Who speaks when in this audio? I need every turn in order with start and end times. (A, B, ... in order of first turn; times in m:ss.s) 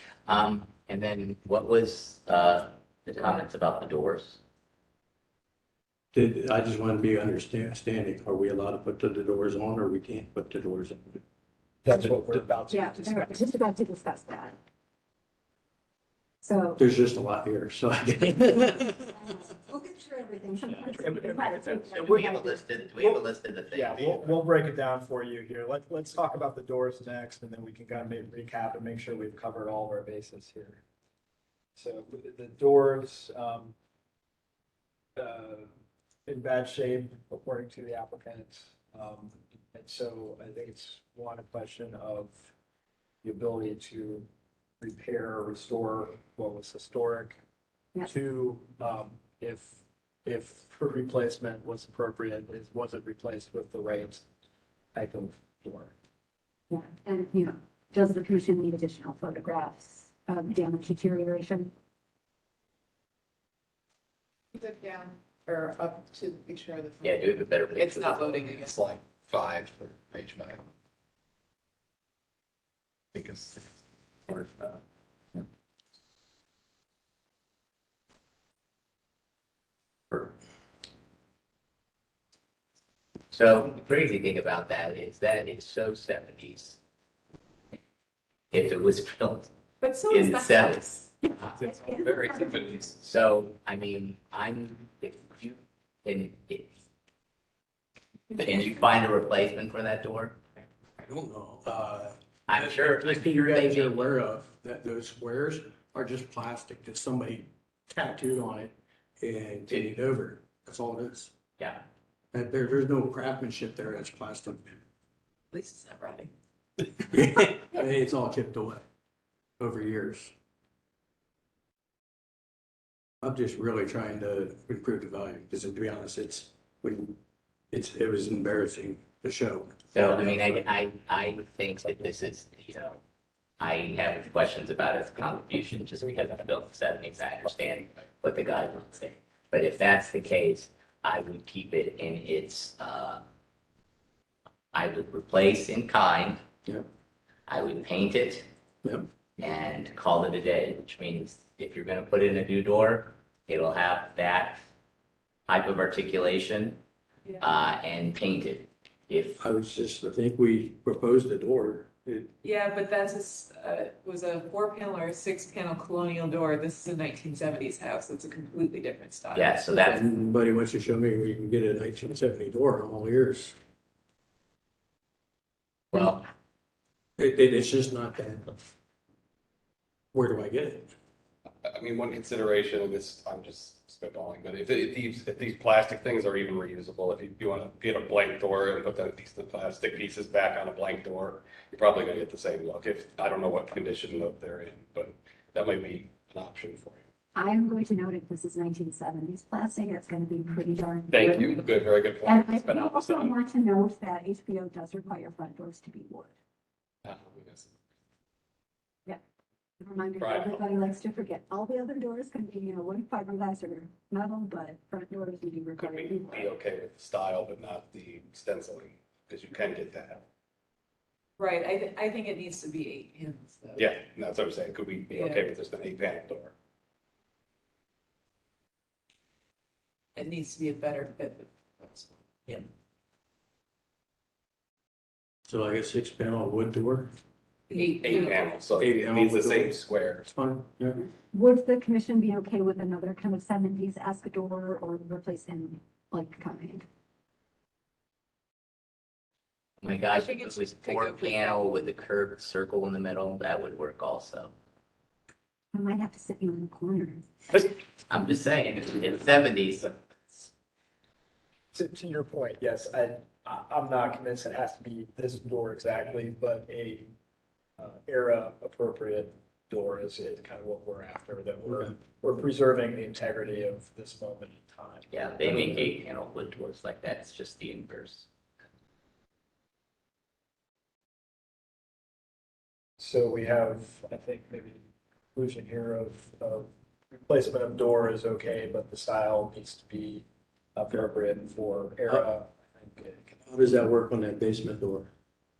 0:00.2-0:04.4 A
0:06.1-0:11.2 B
0:11.8-0:13.4 C
0:12.7-0:14.6 D
0:16.4-0:16.8 D
0:16.8-0:19.1 B
0:19.1-0:22.6 D
0:20.9-0:21.8 C
0:21.4-0:24.3 A
0:23.0-0:30.8 C
0:31.7-0:33.8 C
0:35.2-0:35.7 C
0:36.3-0:42.5 C
0:43.2-0:44.3 C
0:44.8-0:47.4 C
0:48.0-0:54.2 C
0:54.9-0:55.9 C
0:56.7-1:01.7 D
1:04.5-1:08.8 E
1:07.0-1:08.4 A
1:08.5-1:10.6 F
1:13.1-1:13.6 F
1:14.3-1:14.8 F
1:23.3-1:26.8 A
1:28.5-1:29.5 A
1:29.8-1:31.1 E
1:30.1-1:30.8 A
1:31.4-1:33.0 F
1:33.0-1:36.7 A
1:38.3-1:40.4 A
1:41.0-1:51.3 B
1:42.5-1:44.0 A
1:52.3-1:54.8 B
1:55.5-1:56.3 E
1:57.1-1:58.8 B
1:59.6-2:00.3 B
2:03.2-2:07.2 B
2:07.7-2:10.6 B
2:09.9-2:13.0 A
2:13.6-2:23.2 A
2:24.7-2:26.4 A
2:27.5-2:28.5 A
2:28.8-2:29.1 B
2:29.4-2:34.6 A
2:35.5-2:36.8 A
2:37.4-2:39.4 A
2:39.4-2:42.3 B
2:42.4-2:49.8 E
2:49.3-2:50.0 A
2:49.8-2:53.6 B
2:55.9-2:56.3 A
2:57.2-2:58.5 B
3:00.1-3:00.9 B
3:01.6-3:17.0 F
3:17.4-3:21.7 D
3:21.1-3:23.4 F
3:22.2-3:26.3 D
3:27.0-3:27.7 F
3:29.8-3:36.5 D
3:30.2-3:30.7 F
3:35.8-3:40.2 F
3:41.4-3:43.9 E
3:43.8-3:46.5 F
3:45.1-3:45.4 E
3:50.2-3:52.6 E
3:55.5-3:57.1 B
3:57.7-3:58.4 E
3:58.0-4:00.2 F
3:58.8-4:01.0 B
4:01.3-4:06.8 D
4:09.8-4:14.5 A
4:10.1-4:11.8 E
4:15.7-4:17.6 D
4:17.6-4:20.4 A
4:21.7-4:27.1 C
4:27.8-4:35.9 C
4:35.1-4:38.3 A
4:43.0-4:44.8 C
4:45.3-4:46.7 C
4:47.2-4:53.4 C
4:53.4-4:55.1 B